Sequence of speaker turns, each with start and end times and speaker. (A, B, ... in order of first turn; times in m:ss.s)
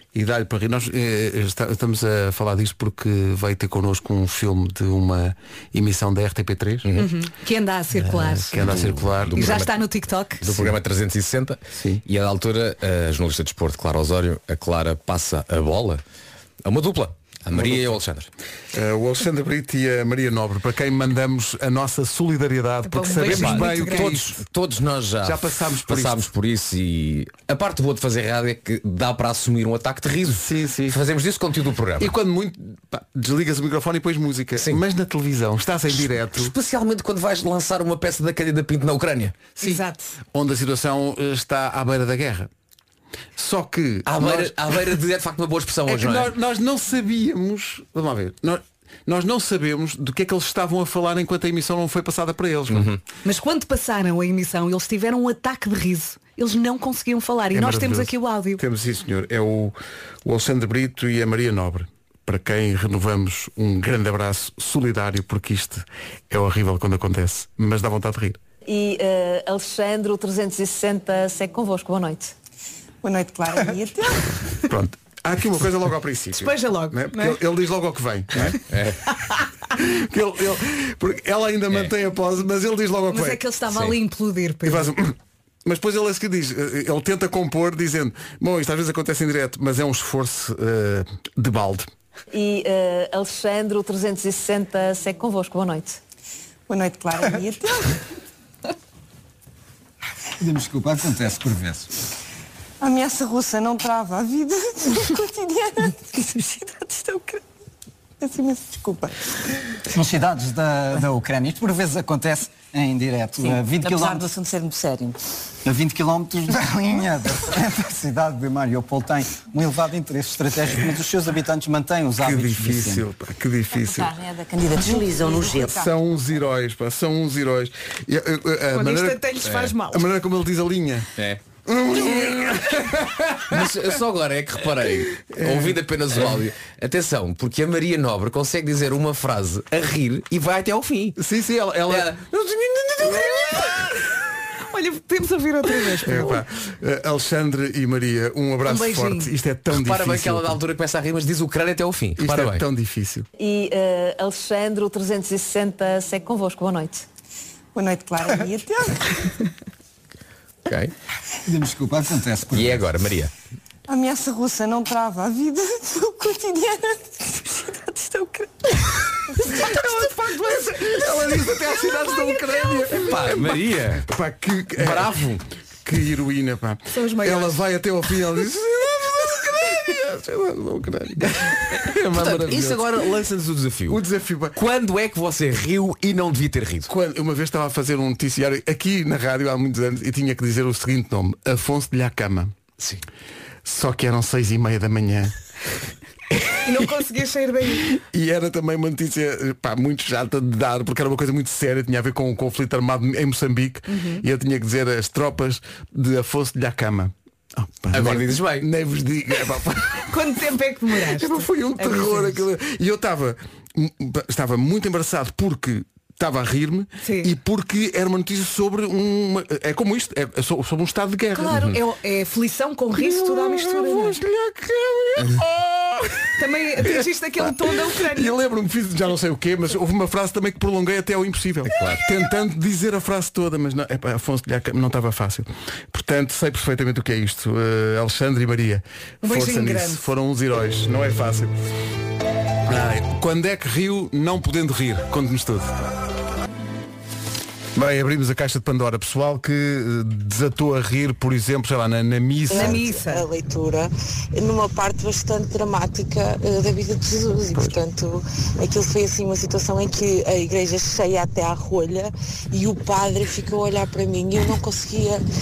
0:00.1-0:06.9 A
0:06.8-0:07.1 B
0:07.0-0:08.6 C
0:08.1-0:09.8 A
0:08.7-0:09.4 B
0:09.3-0:10.4 C
0:10.4-0:16.0 B
0:11.8-0:12.0 A
0:16.6-0:18.3 B
0:17.5-0:17.9 A
0:18.7-0:24.4 A
0:22.9-0:24.2 C
0:23.3-0:32.1 B
0:25.2-0:26.3 A
0:30.2-0:31.0 A
0:32.0-0:36.5 A
0:35.9-0:39.4 B
0:39.6-0:39.8 A
0:39.6-0:40.1 C
0:40.3-0:42.5 A
0:43.4-0:44.6 A
0:44.1-0:46.3 B
0:45.9-0:52.9 A
0:52.7-0:53.0 B
0:53.2-0:58.6 C
0:57.5-1:08.4 A
1:08.7-1:12.3 D
1:13.0-1:14.3 E
1:14.6-1:18.6 A
1:16.4-1:17.4 C
1:18.3-1:19.0 B
1:19.8-1:23.4 A
1:23.1-1:24.9 C
1:23.7-1:24.0 B
1:24.6-1:25.1 A
1:25.6-1:31.9 A
1:32.3-1:36.0 D
1:36.7-1:38.0 E
1:40.4-1:41.9 F
1:42.8-1:47.4 E
1:48.2-1:49.4 E
1:49.9-1:54.3 F
1:53.4-1:55.2 E
1:55.6-2:03.0 F
2:02.2-2:04.1 A
2:04.0-2:05.9 E
2:05.5-2:09.2 A
2:08.7-2:10.1 C
2:09.4-2:09.7 B
2:09.8-2:11.1 A
2:11.2-2:11.4 B
2:11.6-2:13.8 A
2:13.5-2:21.2 B
2:15.2-2:16.4 A
2:21.2-2:22.2 A
2:21.9-2:23.9 B
2:23.0-2:23.7 A
2:24.7-2:26.4 C
2:26.0-2:30.6 A
2:28.6-2:29.3 C
2:29.7-2:32.6 B
2:32.2-2:33.3 A
2:33.4-2:37.0 D
2:37.8-2:39.3 E
2:40.6-2:40.9 B
2:41.4-2:42.8 F
2:42.5-2:43.3 B
2:43.9-2:48.7 E
2:49.4-2:55.2 A
2:49.5-2:50.7 C
2:52.9-2:54.0 B
2:54.8-2:55.4 B
2:55.8-3:03.1 A
2:56.9-2:57.6 C
3:01.7-3:04.0 B
3:03.9-3:04.6 A
3:04.6-3:06.9 B
3:06.9-3:12.5 A
3:13.6-3:15.4 A
3:16.6-3:17.9 C
3:17.9-3:30.1 A
3:23.9-3:24.2 C
3:27.9-3:28.6 B
3:30.1-3:32.4 C
3:31.1-3:41.6 A
3:37.0-3:37.3 C
3:41.3-3:44.2 C
3:41.5-3:41.8 B
3:42.9-4:01.5 A
3:46.4-3:48.3 C
3:51.6-3:52.0 B
3:59.2-4:00.0 C
4:02.7-4:05.7 A
4:07.8-4:12.8 A
4:12.5-4:25.2 G
4:12.5-4:13.3 C